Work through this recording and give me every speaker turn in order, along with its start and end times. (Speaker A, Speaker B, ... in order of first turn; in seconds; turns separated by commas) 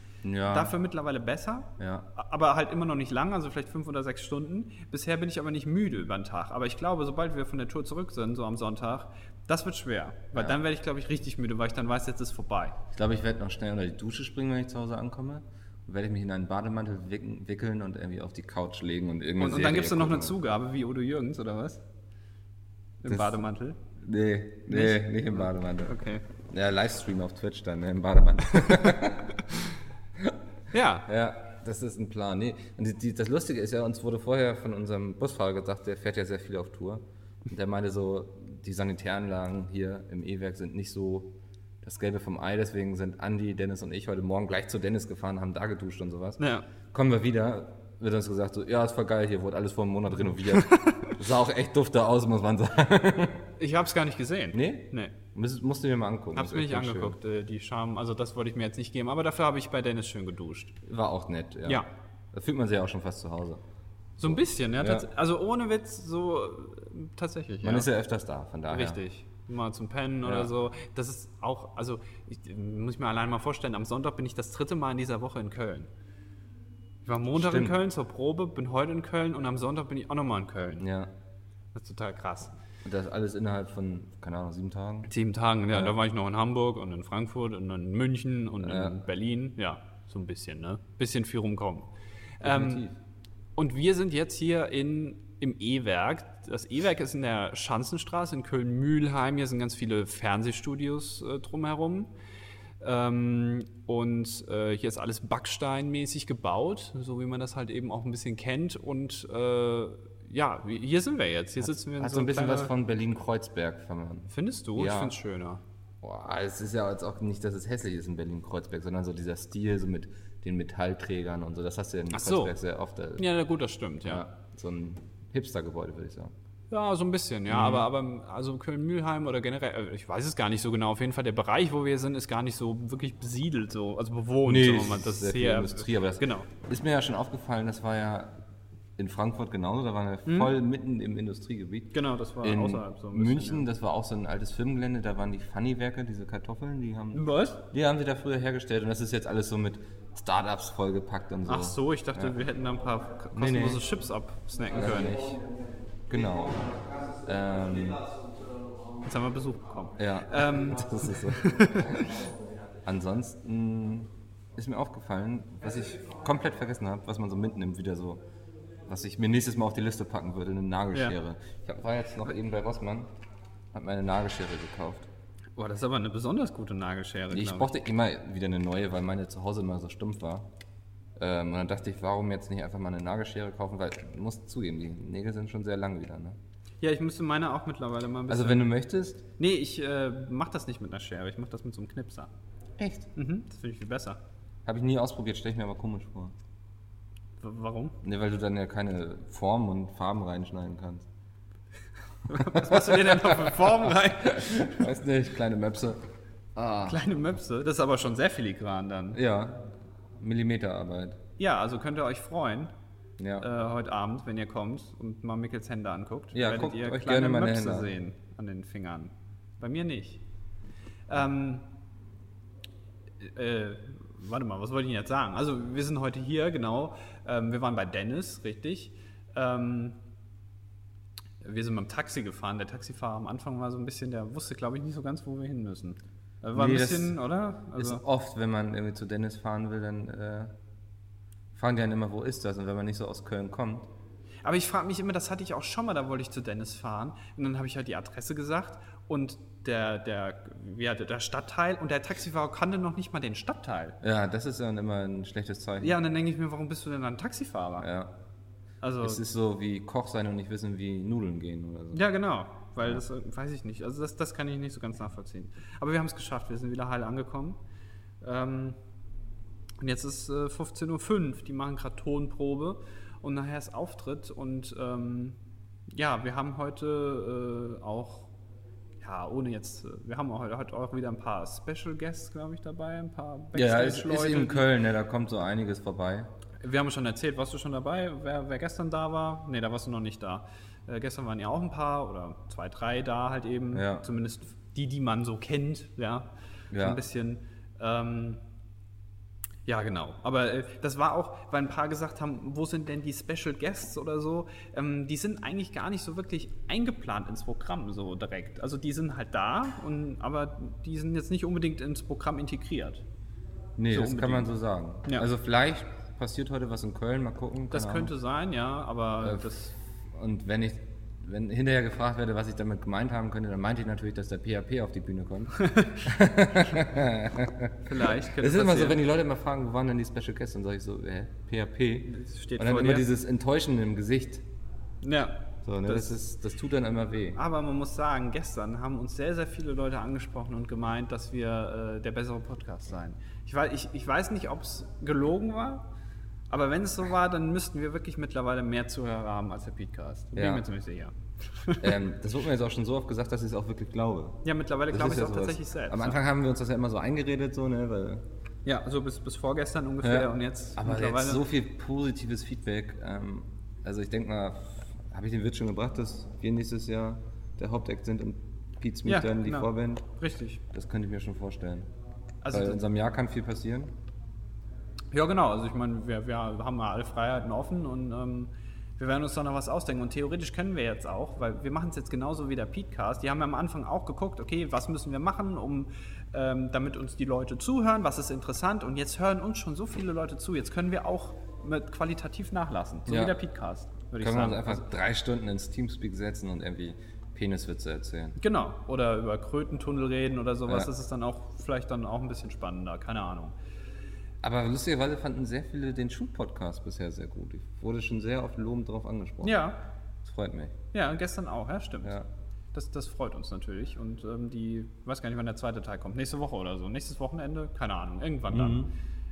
Speaker A: 0.2-0.7, Speaker B: 0.5-12.8, Speaker A: 1.8-2.1, Speaker A: 12.9-20.4, Speaker B: 19.4-21.8, Speaker B: 23.0-23.8, Speaker A: 23.1-23.4, Speaker A: 24.0-26.0, Speaker B: 24.7-26.2, Speaker A: 26.5-30.3, Speaker B: 30.7-31.1, Speaker A: 31.1-41.3, Speaker A: 41.8-53.5, Speaker B: 46.4-46.6, Speaker B: 50.6-51.1, Speaker B: 53.6-55.1, Speaker A: 54.5-57.2, Speaker B: 56.4-60.7, Speaker A: 60.9-63.6, Speaker B: 64.2-67.9, Speaker A: 64.2-65.1, Speaker A: 67.6-69.0, Speaker B: 68.7-75.9, Speaker A: 70.2-70.5, Speaker B: 77.0-80.8, Speaker A: 77.3-77.8, Speaker A: 80.8-81.1, Speaker B: 81.8-82.5, Speaker A: 82.8-85.1, Speaker B: 85.1-91.9, Speaker A: 88.6-89.0, Speaker B: 92.4-92.8, Speaker A: 92.4-93.0, Speaker B: 93.6-102.1, Speaker B: 102.8-112.7, Speaker A: 111.6-115.2, Speaker B: 114.3-115.6, Speaker A: 116.0-123.3, Speaker B: 122.1-122.5, Speaker B: 123.2-124.2, Speaker A: 124.0-126.3, Speaker B: 126.7-136.5, Speaker A: 127.5-127.9, Speaker A: 134.4-138.4, Speaker A: 139.0-152.4, Speaker B: 140.3-140.5, Speaker B: 141.9-143.7, Speaker B: 147.1-147.6, Speaker B: 151.5-155.2, Speaker A: 153.3-153.8, Speaker A: 154.7-155.4, Speaker A: 156.1-158.1, Speaker B: 159.1-162.1, Speaker A: 160.0-162.1, Speaker A: 162.8-168.2, Speaker A: 168.9-173.1, Speaker A: 173.7-175.1, Speaker B: 175.6-177.7, Speaker A: 177.3-180.5, Speaker A: 181.2-186.4, Speaker B: 186.8-188.7, Speaker A: 188.3-189.2, Speaker B: 189.4-192.3, Speaker A: 192.8-193.1, Speaker B: 193.2-194.2, Speaker A: 194.7-196.3, Speaker B: 197.4-197.9, Speaker A: 198.0-201.1, Speaker B: 202.3-204.7, Speaker A: 202.4-203.7, Speaker A: 204.3-206.0, Speaker A: 206.6-207.0, Speaker B: 206.8-209.2, Speaker A: 209.1-209.7, Speaker A: 210.2-211.2, Speaker B: 211.4-212.7, Speaker A: 213.2-213.5, Speaker B: 213.4-220.2, Speaker A: 216.3-217.9, Speaker B: 221.1-221.7, Speaker B: 223.2-230.0, Speaker B: 231.4-238.0, Speaker A: 236.6-237.2, Speaker A: 237.8-240.5, Speaker A: 241.5-243.9, Speaker B: 244.4-254.0, Speaker A: 254.0-256.0, Speaker B: 255.8-257.9, Speaker A: 257.8-258.1, Speaker B: 258.8-259.2, Speaker A: 259.0-262.0, Speaker B: 261.9-267.6, Speaker B: 268.2-268.8, Speaker B: 269.8-275.4, Speaker B: 275.9-278.3, Speaker B: 279.0-284.7, Speaker A: 283.5-286.3, Speaker B: 286.6-298.4, Speaker A: 293.7-294.0, Speaker A: 296.7-297.0, Speaker B: 299.7-313.0, Speaker A: 313.8-318.1, Speaker B: 313.9-314.5, Speaker B: 317.7-319.7, Speaker A: 319.2-334.4, Speaker B: 325.6-325.9, Speaker B: 327.9-329.0, Speaker B: 332.1-333.1, Speaker B: 335.0-336.2, Speaker A: 335.6-337.4, Speaker B: 337.4-345.9, Speaker B: 346.5-351.9, Speaker A: 350.4-350.6, Speaker A: 351.8-358.2, Speaker B: 354.4-356.2, Speaker B: 358.6-361.4, Speaker A: 360.0-370.0, Speaker B: 369.1-370.6, Speaker A: 370.7-371.9, Speaker B: 372.4-372.8, Speaker A: 372.5-373.9, Speaker B: 375.1-394.9, Speaker A: 393.1-393.4, Speaker A: 394.2-398.4, Speaker B: 398.4-403.6, Speaker A: 404.4-409.6, Speaker B: 409.4-409.8, Speaker A: 410.2-410.8, Speaker B: 410.9-412.2, Speaker B: 412.7-418.9, Speaker A: 418.5-418.9